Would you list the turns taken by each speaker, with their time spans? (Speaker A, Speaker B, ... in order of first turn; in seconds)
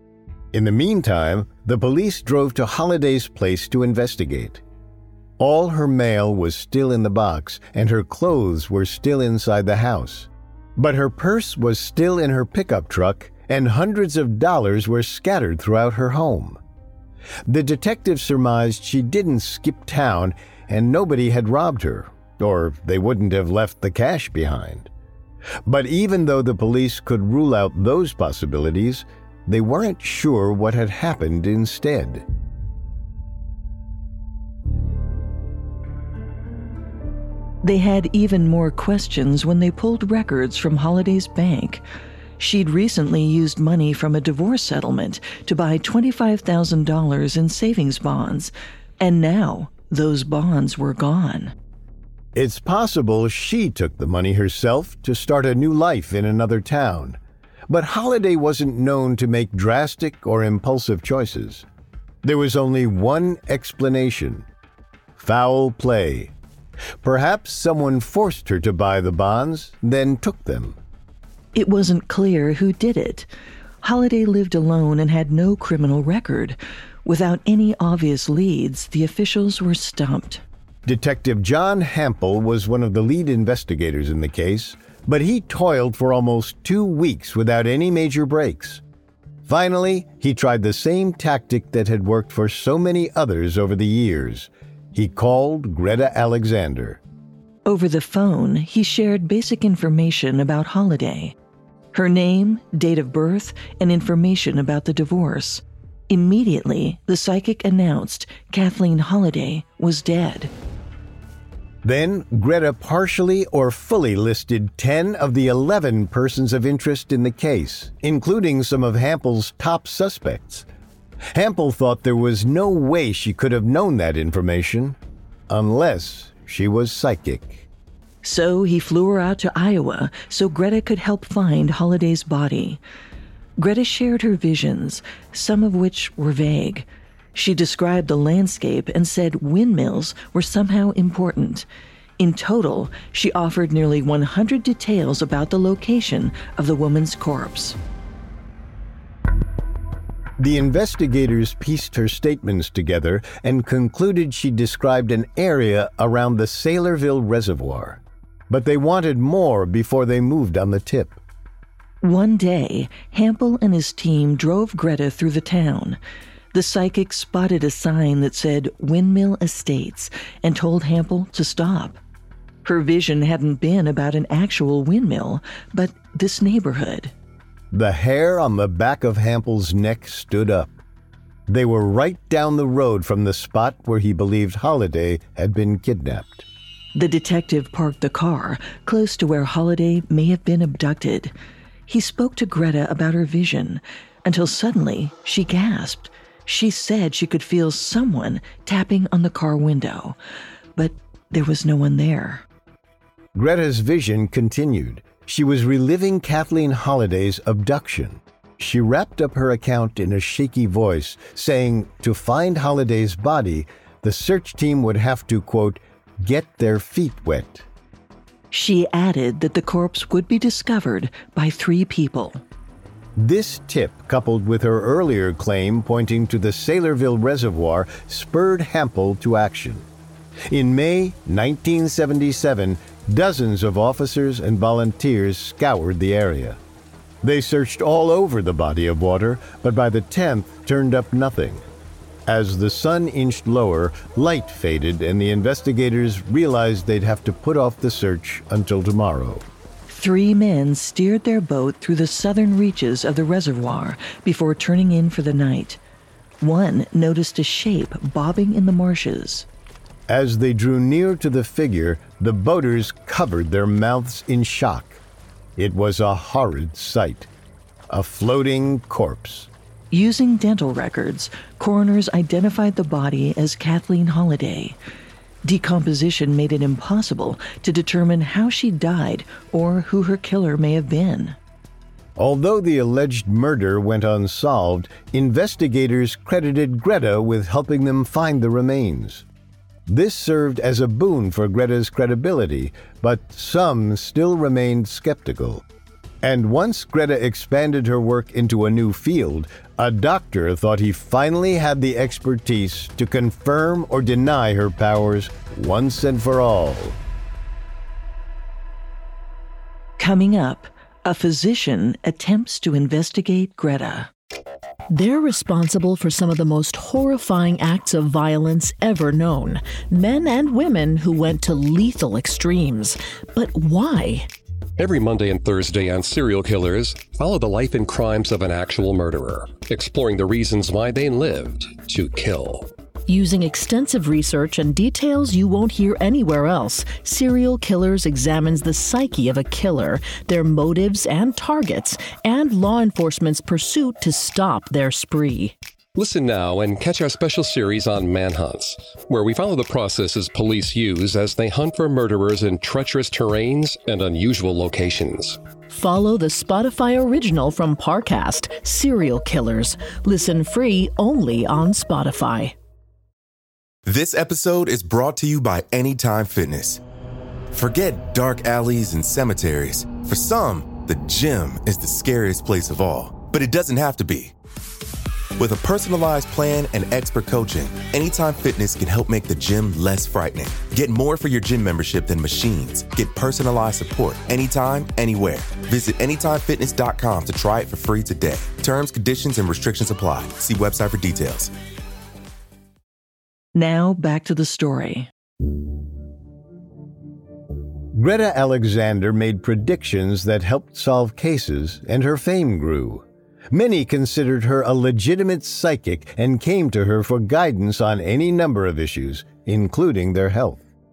Speaker A: 0.5-4.6, 5.4-16.6, 17.5-24.9, 25.6-32.2, 52.4-61.6, 62.2-64.5, 65.2-66.3, 67.0-70.8, 80.8-88.8, 89.5-97.0, 111.8-120.7, 121.3-125.0, 125.5-127.7, 150.4-161.2, 177.7-180.8, 181.5-186.5, 203.3-217.7, 223.2-229.9, 230.5-236.6, 237.2-241.6, 242.3-249.5, 260.1-265.0, 265.6-267.3, 267.9-269.5, 282.2-289.2, 289.9-295.6, 296.2-307.0, 397.9-410.6
Speaker B: 37.6-41.8, 42.4-51.5, 71.5-73.3, 73.8-80.4, 97.7-101.3, 101.9-110.5, 128.2-132.8, 133.6-141.7, 142.2-147.8, 162.0-166.0, 166.5-172.0, 172.7-177.1, 186.9-191.3, 191.9-200.2, 200.8-202.4, 218.5-222.4, 249.9-255.8, 256.4-259.5, 269.9-274.8, 275.4-281.4, 310.0-314.1, 393.6-395.1
Speaker C: 314.9-324.3, 333.1-345.6, 355.7-362.6
Speaker D: 324.8-332.7, 345.9-355.4
Speaker E: 363.9-366.8, 367.5-374.3, 375.4-391.5